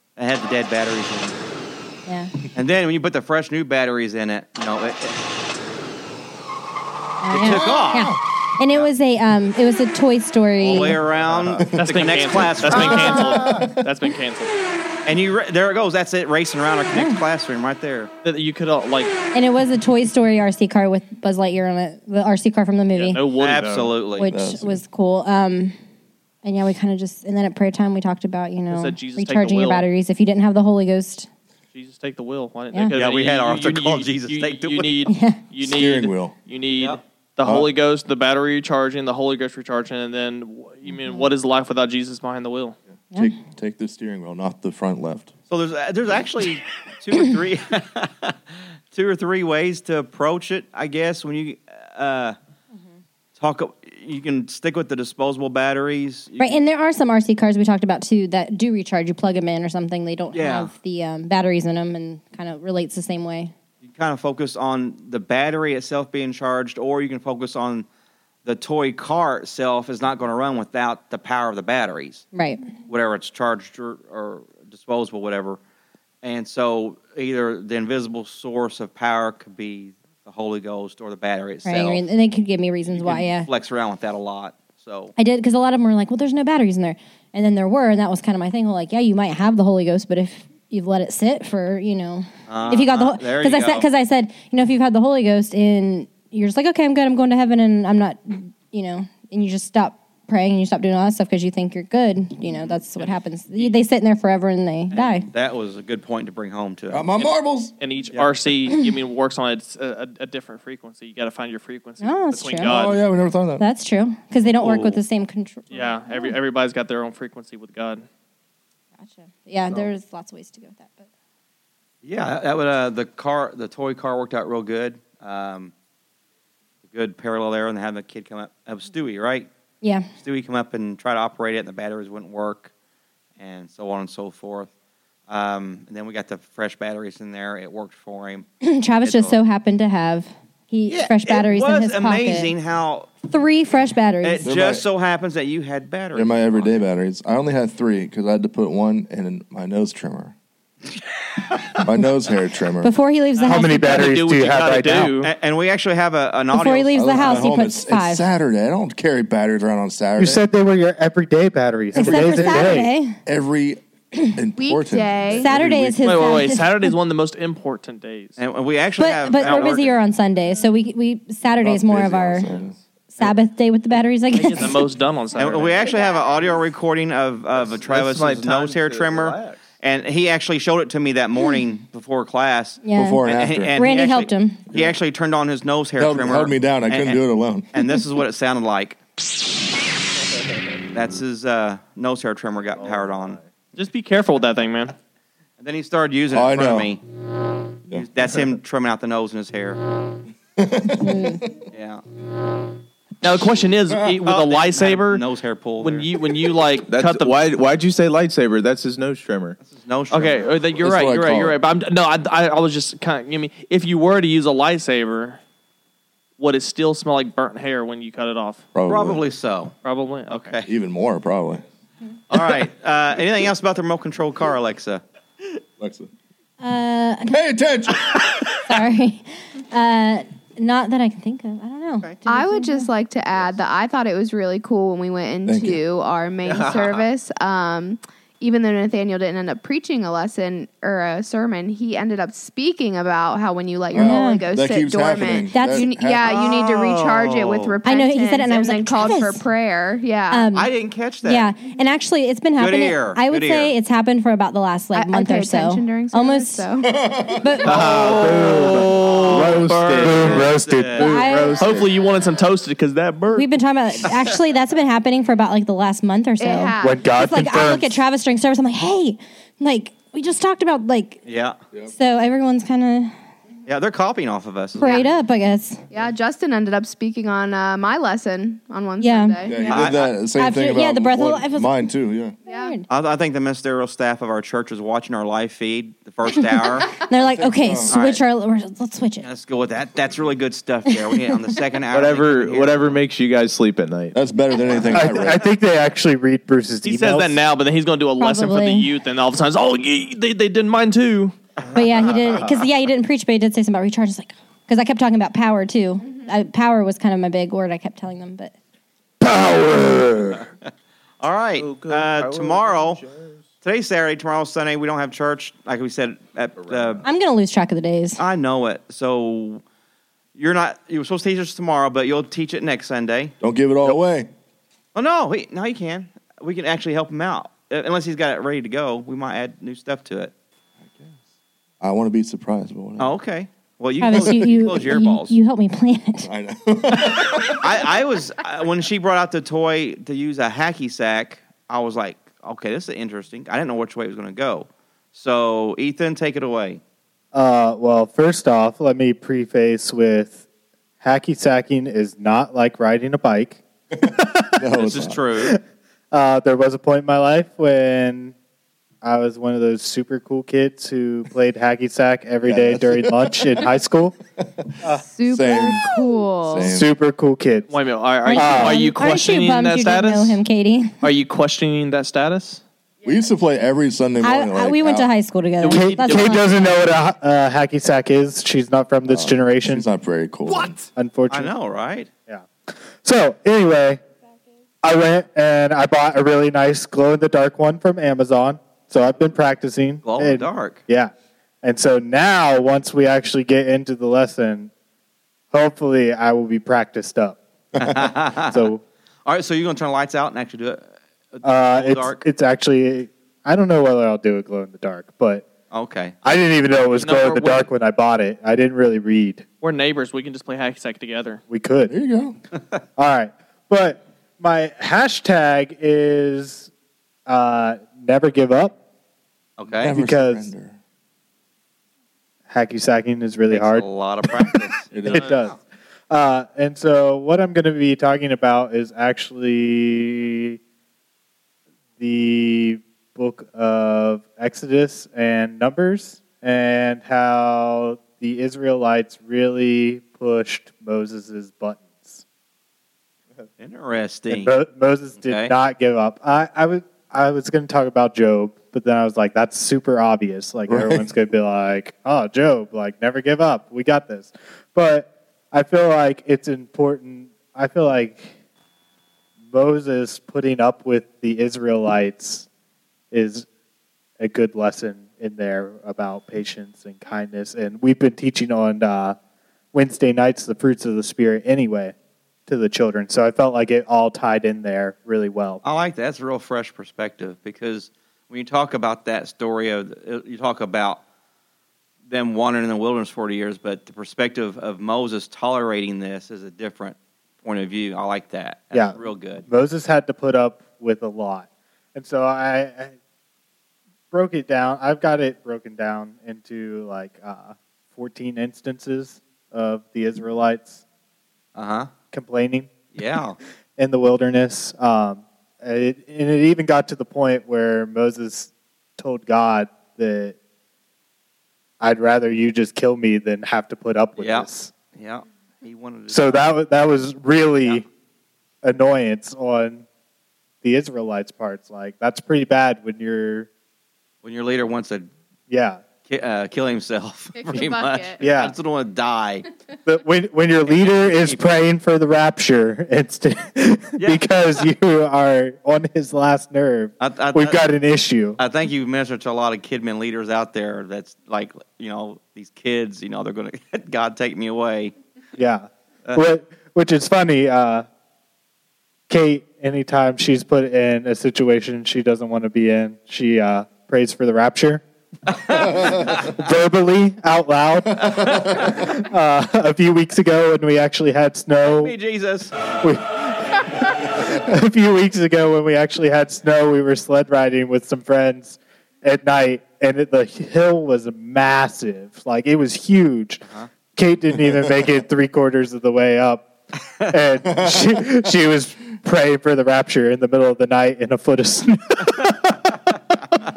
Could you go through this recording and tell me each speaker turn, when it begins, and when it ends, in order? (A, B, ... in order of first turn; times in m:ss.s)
0:00.2-0:01.4 A
0:02.1-0:02.3 B
0:02.5-0:05.2 A
0:07.2-0:11.0 B
0:07.3-0:08.1 A
0:07.4-0:08.2 C
0:10.6-0:13.4 A
0:11.6-0:13.9 C
0:11.8-0:14.5 D
0:15.1-0:18.1 A
0:16.9-0:17.2 B
0:18.2-0:19.1 D
0:19.3-0:23.2 B
0:23.0-0:23.9 D
0:23.4-0:24.3 A
0:24.2-0:25.8 B
0:24.2-0:24.8 C
0:26.4-0:31.3 B
0:28.7-0:29.9 D
0:31.7-0:42.8 D
0:32.9-0:34.9 A
0:35.1-0:35.4 B
0:35.6-0:36.4 C
0:37.4-0:37.7 C
0:40.9-0:41.3 B
0:43.1-0:45.3 C
0:45.5-0:52.4 A
0:53.4-0:56.6 A
0:56.4-1:03.5 B
1:00.3-1:00.7 A
1:03.8-1:07.9 A
1:08.4-1:12.3 A
1:12.3-1:12.7 B
1:12.9-1:15.6 A
1:16.2-1:22.0 A
1:21.6-1:23.5 B
1:22.9-1:25.1 A
1:25.2-1:45.3 B
1:32.5-1:33.9 A
1:44.9-1:47.2 A
1:46.9-1:47.7 C
1:47.8-1:53.0 D
1:52.0-1:52.7 B
1:52.6-1:53.6 C
1:53.6-1:56.4 B
1:54.6-1:54.9 C
1:55.7-1:58.1 D
1:59.0-2:01.1 B
2:02.0-2:05.7 A
2:06.9-2:09.5 A
2:09.8-2:10.1 B
2:10.2-2:12.7 A
2:13.4-2:14.7 A
2:15.3-2:18.5 A
2:18.6-2:22.5 B
2:19.0-2:19.4 A
2:20.9-2:23.1 A
2:23.2-2:24.5 B
2:24.2-2:26.8 A
2:24.4-2:24.8 C
2:26.1-2:30.4 C
2:31.8-2:32.9 C
2:32.8-2:34.1 B
2:33.4-2:35.3 D
2:33.5-2:35.1 E
2:35.2-2:37.5 A
2:36.5-2:38.3 B
2:36.9-2:40.4 C
2:40.2-2:42.9 E
2:41.9-2:43.2 B
2:42.0-2:46.3 C
2:44.6-2:45.5 F
2:45.3-2:46.9 B
2:46.0-2:48.4 D
2:48.4-2:50.0 A
2:49.0-2:52.5 B
2:51.6-2:52.8 C
2:53.1-2:54.9 B
2:54.3-2:55.9 D
2:55.4-3:07.2 A
2:55.8-2:56.6 F
2:57.5-2:59.7 G
3:02.8-3:03.2 B
3:02.9-3:03.8 C
3:03.8-3:04.6 B
3:06.0-3:07.8 C
3:07.7-3:09.0 A
3:10.9-3:13.4 A
3:13.8-3:15.0 D
3:15.6-3:17.0 A
3:16.3-3:16.9 C
3:17.9-3:19.8 A
3:20.6-3:21.6 C
3:20.9-3:21.5 B
3:21.7-3:22.0 A
3:23.2-3:25.2 D
3:23.9-3:24.1 C
3:24.3-3:26.1 A
3:25.8-3:27.4 D
3:26.9-3:29.6 G
3:29.6-3:30.5 A
3:30.1-3:35.4 D
3:30.8-3:31.6 C
3:36.4-3:38.6 D
3:38.7-3:39.2 C
3:38.9-3:39.7 A
3:39.8-3:40.6 D
3:40.3-3:40.7 A
3:40.7-3:41.6 C
3:42.3-3:45.0 A
3:45.8-3:46.1 C
3:46.6-3:47.4 B
3:47.3-3:48.4 C
3:48.7-3:52.9 B
3:52.3-4:10.5 F
3:55.5-3:55.8 C
3:56.5-3:57.0 G
4:03.9-4:06.4 C
4:03.9-4:04.4 B
4:05.5-4:05.9 B
4:06.2-4:07.8 A
4:07.8-4:09.4 B
4:10.3-4:10.7 B
4:10.5-4:11.5 A
4:11.2-4:16.7 B
4:12.6-4:13.8 A
4:14.9-4:17.0 F
4:16.8-4:17.6 C
4:17.3-4:17.9 B
4:17.6-4:20.6 G
4:17.9-4:20.5 D
4:18.0-4:21.8 E
4:19.0-4:21.5 A
4:21.0-4:21.7 B
4:21.6-4:23.4 D
4:23.1-4:23.4 G
4:23.4-4:31.2 B
4:26.4-4:27.1 F
4:26.8-4:28.0 E
4:31.2-4:31.6 A
4:31.9-4:33.1 B
4:33.7-4:35.1 A
4:34.8-4:35.8 B
4:35.9-4:40.0 F
4:39.0-4:39.7 B
4:39.4-4:42.4 C
4:39.7-4:40.1 A
4:40.3-4:41.8 B
4:42.5-4:42.9 B
4:42.5-4:42.8 F
4:42.9-4:46.9 A
4:46.3-4:49.3 B
4:47.2-4:47.9 C
4:47.9-4:48.2 A
4:49.2-4:53.0 A
4:51.9-4:54.2 G
4:54.1-4:55.4 C
4:54.9-4:57.4 E
4:56.8-5:01.4 D
4:58.2-4:58.9 B
5:01.6-5:02.4 A
5:01.7-5:08.5 B
5:11.2-5:13.0 A
5:11.6-5:13.4 G
5:13.6-5:17.0 A
5:16.6-5:17.0 G
5:17.0-5:18.2 B
5:18.2-5:19.6 A
5:20.4-5:24.0 A
5:23.4-5:24.3 C
5:25.0-5:30.3 A
5:30.8-5:31.2 C
5:31.8-5:33.2 C
5:33.0-5:35.4 A
5:34.0-5:36.3 B
5:34.1-5:34.8 C
5:36.2-5:37.7 C
5:36.9-5:46.8 A
5:47.3-5:50.4 E
5:51.0-5:53.6 E
5:54.2-5:54.6 E
5:54.6-5:55.2 C
5:54.7-5:55.6 A
5:56.1-5:58.4 E
5:59.0-6:04.2 E
6:02.4-6:03.5 C
6:04.4-6:04.7 C
6:05.0-6:06.7 F
6:05.3-6:05.9 C
6:06.5-6:06.9 C
6:06.6-6:07.7 E
6:07.7-6:10.4 D
6:08.2-6:11.0 B
6:08.4-6:08.8 E
6:11.0-6:12.6 D
6:13.0-6:15.1 C
6:14.2-6:16.6 B
6:15.6-6:16.7 D
6:15.7-6:19.9 E
6:19.1-6:20.8 C
6:20.9-6:21.5 E
6:21.3-6:22.1 A
6:23.0-6:24.0 E
6:24.8-6:31.1 E
6:30.0-6:30.8 A
6:31.6-6:34.7 E
6:35.5-6:37.4 E
6:37.8-6:38.7 A
6:38.5-6:38.8 E
6:39.3-6:42.2 A
6:41.4-6:45.5 E
6:45.7-6:46.2 A
6:46.2-6:49.5 E
6:47.0-6:47.7 D
6:49.6-6:51.4 D
6:51.5-6:51.9 E
6:51.9-6:52.4 C
6:53.0-6:56.7 E
6:57.3-6:58.8 E
6:59.6-7:00.0 A
6:59.8-7:00.8 C
6:59.9-7:00.5 E
7:02.5-7:03.9 E
7:03.5-7:05.6 A
7:04.9-7:05.3 C
7:05.0-7:05.6 E
7:06.1-7:10.6 E
7:12.0-7:22.2 E
7:23.6-7:24.5 A
7:24.3-7:38.4 E
7:25.2-7:25.5 A
7:30.7-7:31.1 C
7:39.5-7:42.5 E
7:43.1-7:43.5 E
7:44.2-7:49.2 E
7:49.7-7:52.0 E
7:52.5-7:55.6 E
7:55.6-8:01.0 A
8:02.1-8:09.5 A
8:08.7-8:13.0 E
8:14.1-8:20.8 E
8:21.6-8:21.9 A
8:22.1-8:22.8 E
8:22.9-8:23.4 A
8:23.8-8:30.4 E
8:31.8-8:34.7 E
8:34.2-8:36.5 A
8:36.1-8:37.9 E
8:38.6-8:39.8 E
8:40.6-8:43.5 E
8:44.2-8:45.1 A
8:45.5-8:45.8 E
8:46.1-8:49.5 A
8:47.4-8:48.2 F
8:48.2-8:48.6 E
8:49.8-8:58.4 E
8:54.0-8:54.3 A
8:57.0-8:57.6 A
8:58.4-9:04.9 A
9:05.4-9:07.9 E
9:09.1-9:14.8 E
9:15.3-9:16.3 A
9:15.9-9:22.0 E
9:18.0-9:18.7 C
9:18.3-9:18.7 A
9:21.8-9:22.5 A
9:22.8-9:36.5 E
9:37.1-9:42.3 E
9:37.4-9:38.0 C